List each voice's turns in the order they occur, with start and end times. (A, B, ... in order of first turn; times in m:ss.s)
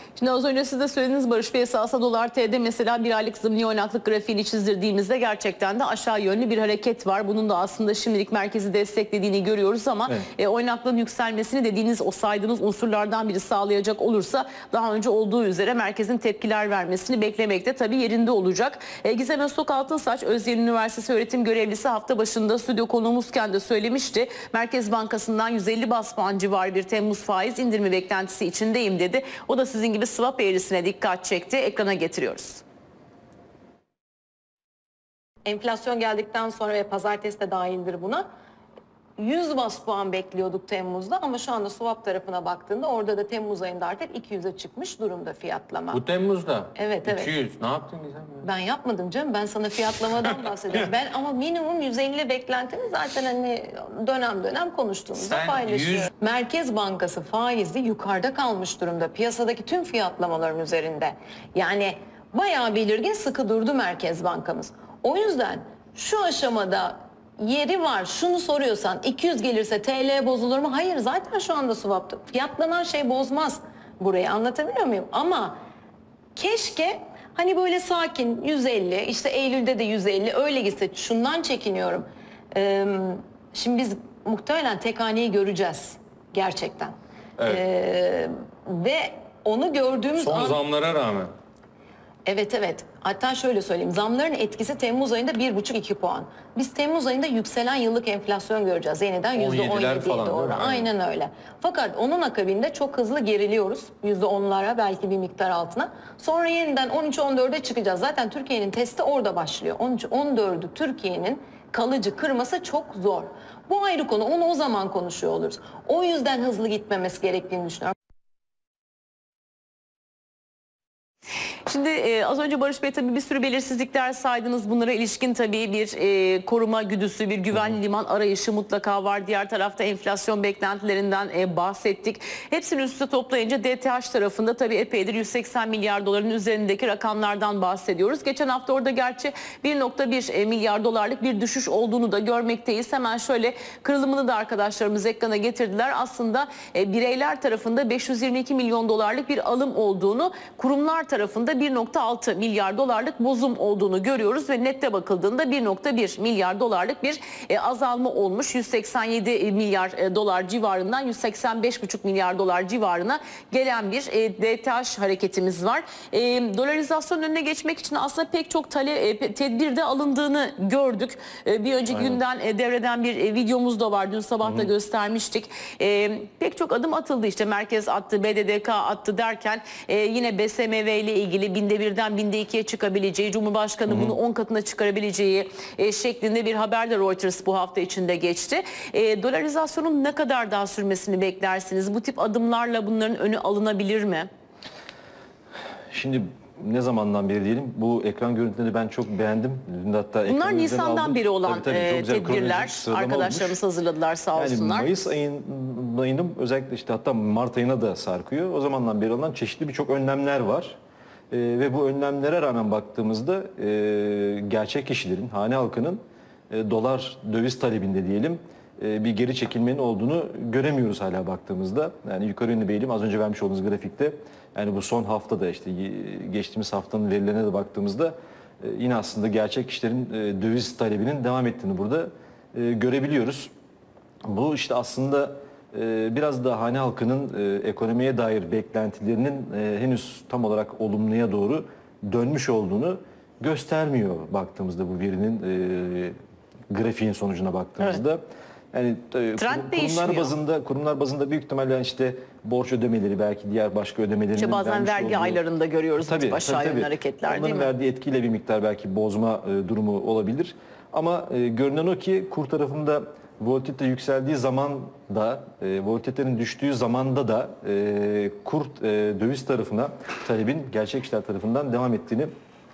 0:00.2-0:32.6 A
0:35.4-0:38.3 B
0:39.2-0:46.0 B
0:45.9-0:48.5 C
0:46.8-0:47.3 B
0:48.4-1:15.6 B
0:55.2-0:56.1 C
1:16.4-1:26.9 B
1:27.5-1:30.6 B
1:30.2-1:31.3 C
1:32.3-1:57.9 B
1:39.4-1:40.9 C
2:01.7-3:14.3 A
2:51.9-2:52.2 D
2:54.4-2:54.7 D
3:03.9-3:04.2 D
3:15.9-3:23.6 D
3:20.3-3:24.9 A
3:24.4-3:30.8 D
3:31.3-3:53.5 D
3:54.2-4:06.2 D
4:06.7-4:15.4 D
4:09.4-4:10.3 A
4:14.4-4:17.7 A
4:16.0-4:32.3 D